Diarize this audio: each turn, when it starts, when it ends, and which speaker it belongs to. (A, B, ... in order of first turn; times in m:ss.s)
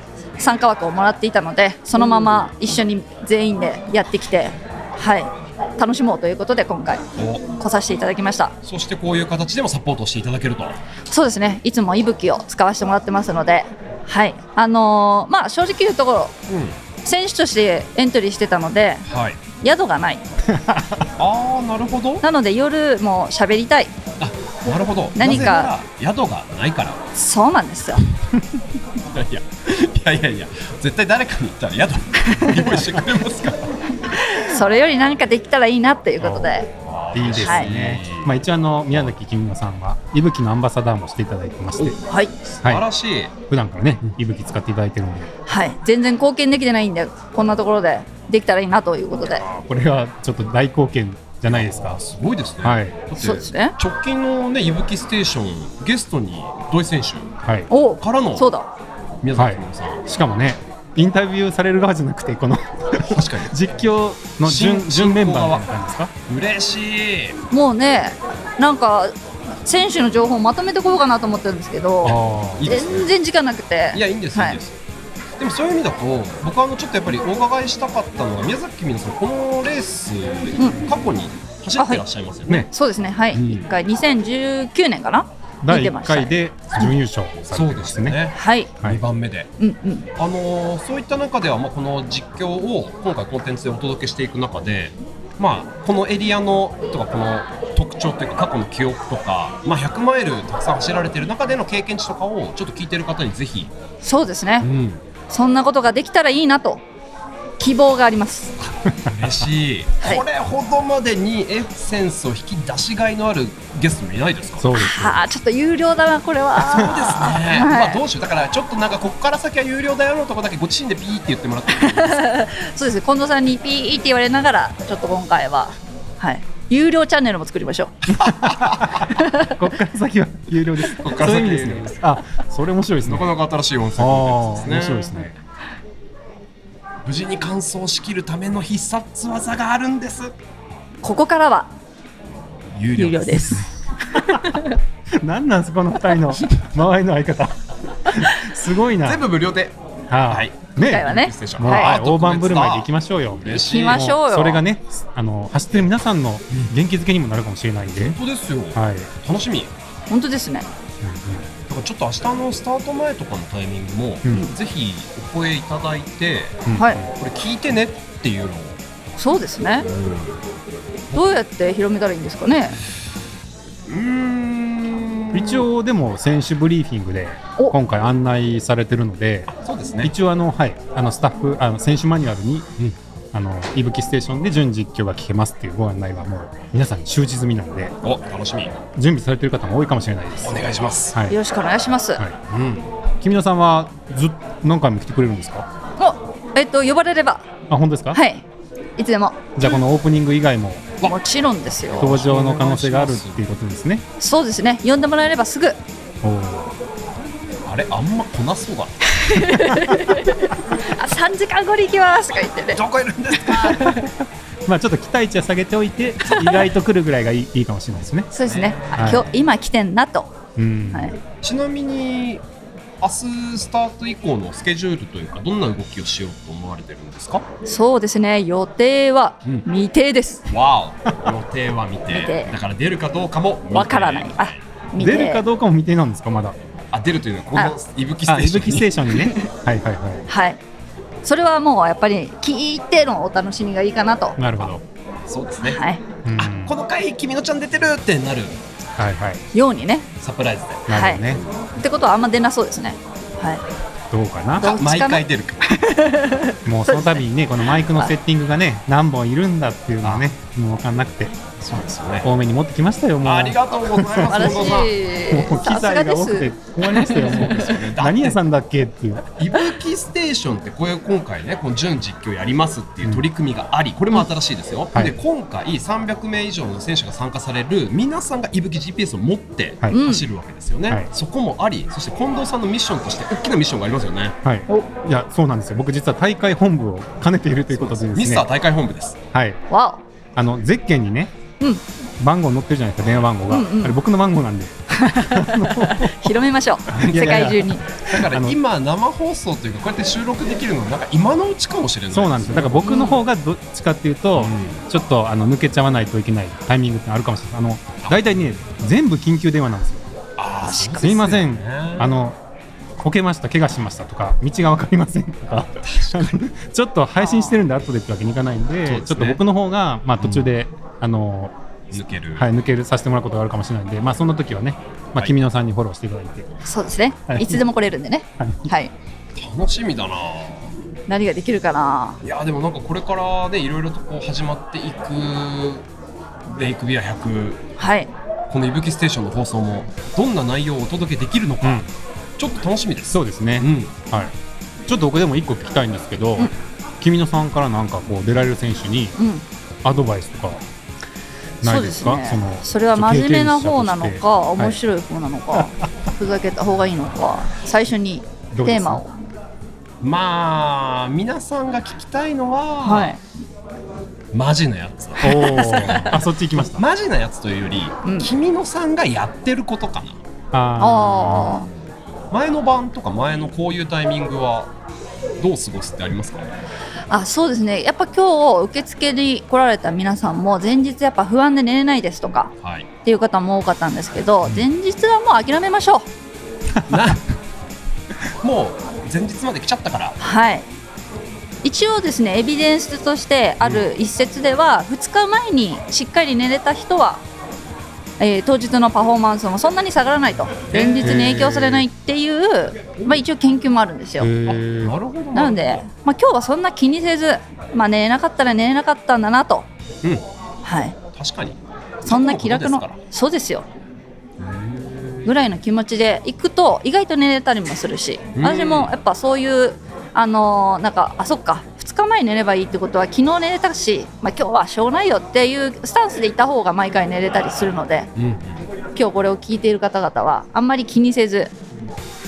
0:00.4-0:08.5 A
0:07.2-0:07.4 B
0:08.6-0:10.8 B
0:11.1-0:16.3 A
0:16.5-0:16.8 B
0:17.0-0:19.0 A
0:19.1-0:19.4 B
0:19.6-0:20.2 A
0:20.5-0:21.0 C
0:21.2-0:22.2 B
0:22.2-0:23.9 A
0:24.2-0:27.0 B
0:25.1-0:25.7 A
0:27.1-0:28.0 A
0:29.0-0:33.7 B
0:34.1-0:36.7 A
0:36.2-0:36.5 C
0:36.8-0:39.1 B
0:37.1-0:42.0 C
0:37.4-0:37.7 A
0:41.9-0:42.3 A
0:42.4-0:43.3 B
0:43.5-0:45.3 C
0:45.5-0:49.4 A
0:49.2-0:52.0 C
0:51.5-0:57.3 B
0:52.6-0:53.0 C
0:53.2-0:53.8 A
0:57.7-0:58.7 A
0:58.0-0:58.5 B
0:59.2-1:00.0 B
0:59.3-1:06.1 C
1:03.1-1:03.5 B
1:04.4-1:05.7 B
1:06.3-1:07.4 B
1:07.5-1:14.6 A
1:12.0-1:12.7 C
1:12.1-1:13.1 B
1:13.9-1:14.8 B
1:15.4-1:22.7 B
1:20.6-1:20.9 A
1:21.8-1:22.0 A
1:22.7-1:26.8 A
1:23.3-1:23.7 B
1:25.6-1:28.2 C
1:27.4-1:29.5 B
1:28.3-1:28.7 A
1:29.6-1:30.1 A
1:30.2-1:43.7 B
1:44.0-1:44.7 A
1:44.6-1:45.0 B
1:45.3-1:46.8 A
1:47.6-1:48.6 A
1:49.1-1:54.7 B
1:54.6-1:55.3 C
1:54.7-1:58.0 A
1:56.6-2:02.3 B
1:56.7-1:57.1 C
2:01.7-2:07.9 A
2:08.4-2:13.3 C
2:08.4-2:08.8 B
2:09.0-2:09.5 A
2:10.9-2:12.0 B
2:13.0-2:15.2 B
2:14.0-2:15.3 C
2:17.0-2:20.3 B
2:21.0-2:21.7 A
2:22.7-2:23.6 B
2:23.0-2:24.8 A
2:25.2-2:29.2 C
2:29.0-2:29.8 B
2:30.1-2:38.2 C
2:30.3-2:34.1 B
2:30.8-2:32.0 A
2:33.7-2:34.6 A
2:37.9-2:39.7 B
2:38.8-2:39.1 C
2:40.1-2:40.7 A
2:41.0-2:41.4 C
2:41.7-2:48.8 B
2:46.6-2:47.1 C
2:46.7-2:47.0 A
2:49.2-2:49.9 A
2:49.8-2:50.4 B
2:51.1-2:51.4 B
2:51.1-2:52.8 A
2:53.9-2:55.7 B
2:55.3-2:59.5 C
2:59.5-3:00.1 B
3:00.0-3:02.8 C
3:03.3-3:08.0 C
3:08.0-3:08.8 B
3:09.0-3:11.4 C
3:10.4-3:11.2 B
3:11.3-3:12.2 A
3:12.5-3:12.9 B
3:13.2-3:15.7 C
3:16.0-3:17.4 A
3:17.7-3:18.2 C
3:18.1-3:18.4 A
3:19.0-3:19.5 A
3:19.6-3:20.9 C
3:21.0-3:22.1 A
3:21.8-3:23.4 B
3:22.0-3:24.0 C
3:24.2-3:25.8 A
3:26.2-3:26.7 C
3:27.6-3:29.0 B
3:29.1-3:32.8 A
3:32.6-3:34.1 B
3:33.3-3:33.9 A
3:33.8-3:34.1 C
3:34.6-3:38.3 C
3:38.3-3:40.3 A
3:38.4-3:39.2 B
3:38.9-3:39.2 C
3:40.6-3:41.1 C
3:40.9-3:41.2 A
3:41.4-3:42.4 B
3:43.0-3:47.4 B
3:47.6-3:50.4 A
3:50.5-3:54.6 B
3:52.1-3:52.5 A
3:53.7-3:55.4 A
3:55.0-3:56.6 C
3:56.9-3:59.3 B
3:58.3-4:00.2 C
4:00.3-4:00.6 A
4:01.2-4:04.4 A
4:04.4-4:04.8 C
4:05.3-4:05.8 B
4:05.6-4:06.0 A
4:06.2-4:06.8 C
4:06.4-4:08.6 B
4:09.0-4:09.4 C
4:09.5-4:10.1 A
4:10.2-4:11.5 B
4:10.9-4:11.4 C
4:10.9-4:11.2 A
4:11.8-4:13.6 A
4:14.1-4:14.7 C
4:14.6-4:18.1 A
4:14.6-4:15.6 B
4:16.6-4:21.3 C
4:20.0-4:20.3 B
4:21.6-4:22.3 B
4:22.2-4:29.2 C
4:23.2-4:25.0 B
4:24.3-4:27.7 A
4:27.2-4:28.4 B
4:29.4-4:44.4 B
4:39.9-4:40.2 A
4:44.4-4:48.5 C
4:47.7-4:49.2 B
4:49.3-4:49.6 C
4:49.7-4:50.0 A
4:50.4-4:51.3 C
4:52.2-4:56.3 C
4:53.5-4:54.0 A
4:54.9-4:57.8 A
4:56.9-4:58.6 C
4:57.0-4:57.3 B
4:58.1-5:03.1 B
5:02.1-5:10.0 C
5:02.8-5:03.2 A
5:04.4-5:04.8 B
5:08.0-5:08.4 B
5:10.4-5:12.2 B
5:10.6-5:11.1 A
5:11.0-5:12.4 C
5:13.0-5:21.5 C
5:15.8-5:16.4 B
5:17.2-5:17.6 A
5:18.8-5:19.4 B
5:20.2-5:20.5 B
5:21.9-5:22.5 B
5:22.3-5:26.5 C
5:26.6-5:28.9 A
5:27.3-5:27.6 C
5:28.4-5:28.7 C
5:29.4-5:30.7 B
5:31.1-5:32.2 A
5:32.2-5:35.8 B
5:36.5-5:37.6 B
5:37.8-5:38.1 A
5:38.5-5:41.8 B
5:41.6-5:41.9 C
5:42.4-5:43.9 B
5:43.1-5:44.3 C
5:44.9-5:49.2 C
5:49.2-5:49.4 A
5:49.8-5:50.6 C
5:51.6-5:54.8 C
5:51.6-5:59.1 A
5:58.5-5:59.0 C
6:00.0-6:03.2 B
6:02.8-6:03.2 A
6:04.3-6:10.2 B
6:05.2-6:06.8 C
6:05.2-6:06.1 A
6:08.0-6:08.3 A
6:10.5-6:11.6 C
6:10.8-6:11.6 A
6:11.2-6:11.8 B
6:12.3-6:14.7 B
6:15.4-6:16.5 B
6:17.1-6:22.5 A
6:22.6-6:22.9 B
6:23.0-6:26.1 A
6:26.9-6:27.2 B
6:28.4-6:30.2 B
6:30.2-6:30.7 A
6:31.6-6:37.2 A
6:33.6-6:33.9 C
6:38.2-6:44.3 A
6:40.7-6:41.1 B
6:41.0-6:41.9 C
6:44.2-6:44.9 C
6:44.5-6:45.8 B
6:45.3-6:49.7 A
6:50.6-6:51.0 A
6:51.2-6:53.0 B
6:52.0-6:53.6 A
6:54.4-6:55.4 B
6:55.2-7:08.1 A
6:58.4-6:58.9 B
7:08.2-7:08.6 B
7:08.9-7:11.5 A